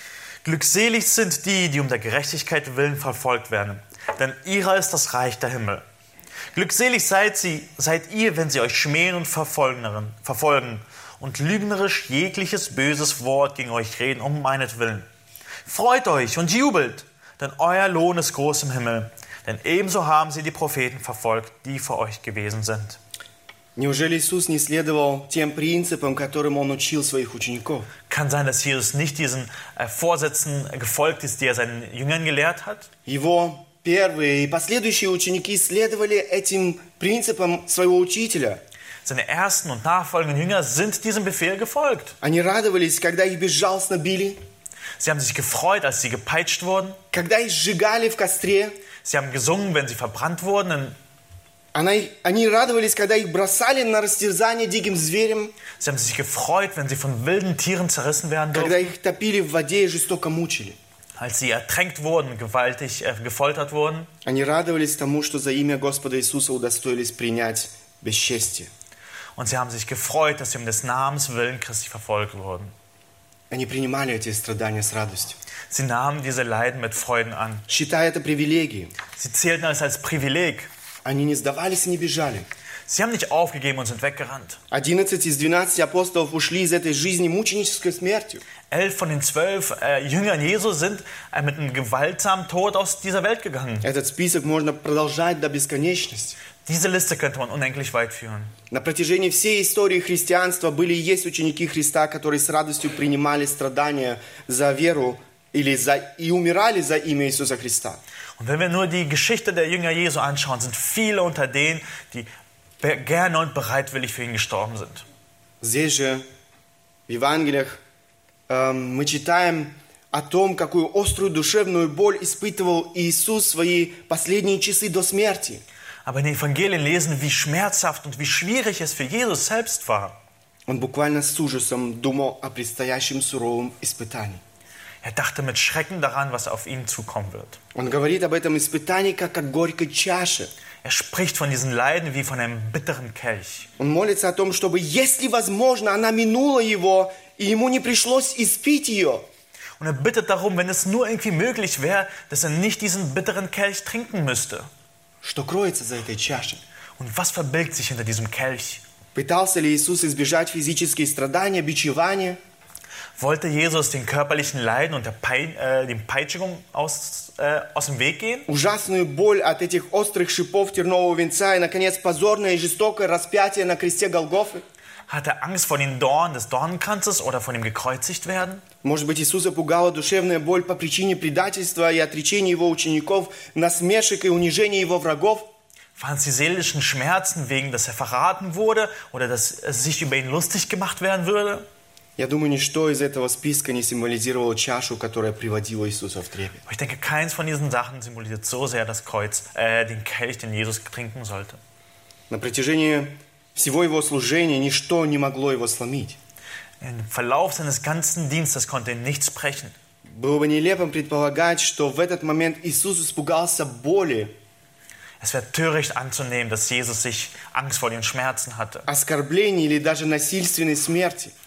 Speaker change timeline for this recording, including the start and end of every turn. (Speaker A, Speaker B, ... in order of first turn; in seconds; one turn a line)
Speaker A: 0.4-5.8
Speaker A: 6.5-15.1
Speaker A: 15.7-23.0
Speaker B: 23.8-27.9
Speaker A: 28.1-32.9
Speaker B: 33.1-38.6
Speaker A: 39.0-42.1
Speaker B: 42.2-44.4
Speaker A: 45.0-47.0
Speaker B: 47.1-48.8
Speaker A: 49.0-51.0
Speaker B: 51.7-55.6
Speaker A: 55.8-58.9
Speaker B: 58.5-60.8
Speaker A: 61.2-64.1
Speaker B: 64.2-68.7
Speaker A: 69.4-72.7
Speaker B: 73.5-75.4
Speaker A: 75.7-77.7
Speaker B: 77.7-79.0
Speaker A: 79.2-80.7
Speaker B: 81.0-82.5
Speaker A: 82.9-84.6
Speaker B: 84.7-88.4
Speaker A: 88.7-93.9
Speaker B: 93.8-96.4
Speaker A: 96.7-98.5
Speaker B: 98.7-108.0
Speaker A: 108.4-112.3
Speaker A: 112.8-115.0
Speaker B: 115.6-116.3
Speaker B: 117.1-117.8
Speaker B: 118.5-125.6
Speaker A: 126.1-130.2
Speaker B: 130.7-134.4
Speaker A: 135.0-137.6
Speaker B: 137.8-140.5
Speaker A: 140.8-143.7
Speaker B: 143.8-149.2
Speaker A: 149.8-154.7
Speaker B: 155.2-156.6
Speaker A: 157.0-158.8
Speaker B: 159.2-162.4
Speaker A: 163.2-168.5
Speaker B: 168.5-174.6
Speaker A: 175.1-178.6
Speaker B: 178.8-185.5
Speaker A: 186.0-191.7
Speaker B: 192.2-196.6
Speaker A: 196.7-201.6
Speaker B: 202.3-206.2
Speaker A: 206.8-209.7
Speaker B: 210.1-214.3
Speaker A: 215.2-218.9
Speaker B: 218.9-221.3